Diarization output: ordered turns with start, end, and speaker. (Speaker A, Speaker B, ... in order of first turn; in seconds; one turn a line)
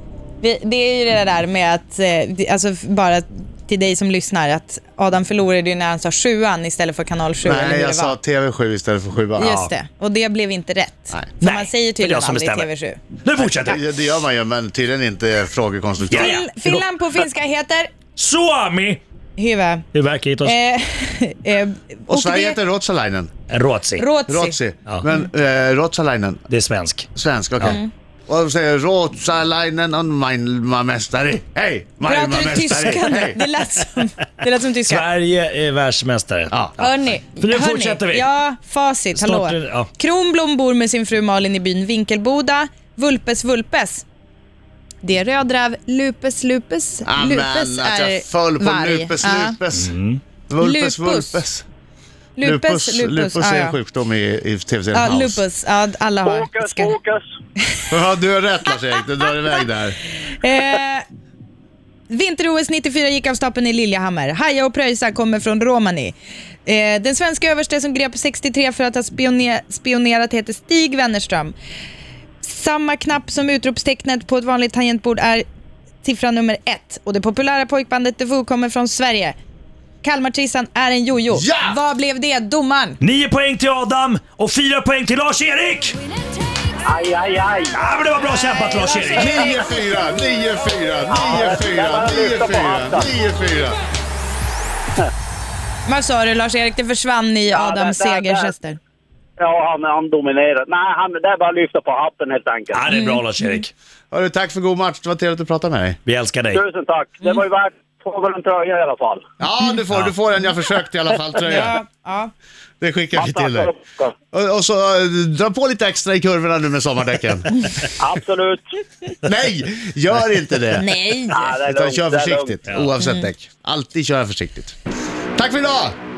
Speaker A: 0.4-8.2
Speaker B: 7.4-9.5
Speaker A: 9.4-13.0
Speaker C: 11.4-12.7
Speaker C: 13.2-13.8
Speaker B: 13.4-16.4
Speaker C: 16.1-16.9
Speaker A: 16.1-17.9
Speaker C: 18.2-19.0
Speaker A: 19.4-19.9
Speaker C: 19.9-20.6
Speaker A: 20.4-22.6
Speaker B: 22.1-23.3
Speaker C: 23.5-24.1
Speaker A: 24.0-24.6
Speaker B: 24.3-26.4
Speaker C: 26.5-27.1
Speaker B: 27.1-33.4
Speaker A: 32.0-35.1
Speaker C: 34.9-38.3
Speaker A: 36.8-44.0
Speaker C: 39.1-39.9
Speaker A: 45.0-49.6
Speaker B: 47.1-49.9
Speaker C: 49.7-50.2
Speaker B: 50.5-51.6
Speaker A: 50.6-51.4
Speaker A: 52.4-53.8
Speaker B: 52.4-55.4
Speaker A: 54.9-57.0
Speaker D: 56.2-57.2
Speaker B: 57.9-60.0
Speaker A: 60.4-61.0
Speaker A: 62.1-71.5
Speaker A: 72.4-75.4
Speaker A: 76.0-79.4
Speaker A: 80.0-83.0
Speaker B: 81.3-81.8
Speaker C: 83.0-86.0
Speaker D: 86.8-87.8
Speaker C: 87.7-89.5
Speaker B: 89.1-93.8
Speaker D: 91.1-93.1
Speaker A: 95.9-98.8
Speaker D: 97.5-98.5
Speaker D: 99.4-102.8
Speaker C: 102.7-103.7
Speaker A: 102.9-103.5
Speaker B: 104.1-106.0
Speaker C: 106.1-106.6
Speaker D: 106.5-109.2
Speaker B: 109.4-111.8
Speaker A: 111.4-112.3
Speaker B: 112.8-113.7
Speaker D: 113.2-114.1
Speaker B: 114.3-117.6
Speaker D: 118.0-118.6
Speaker B: 119.2-120.9
Speaker A: 120.8-121.4
Speaker D: 121.3-122.6
Speaker B: 121.4-124.8
Speaker A: 123.0-123.3
Speaker B: 125.4-126.0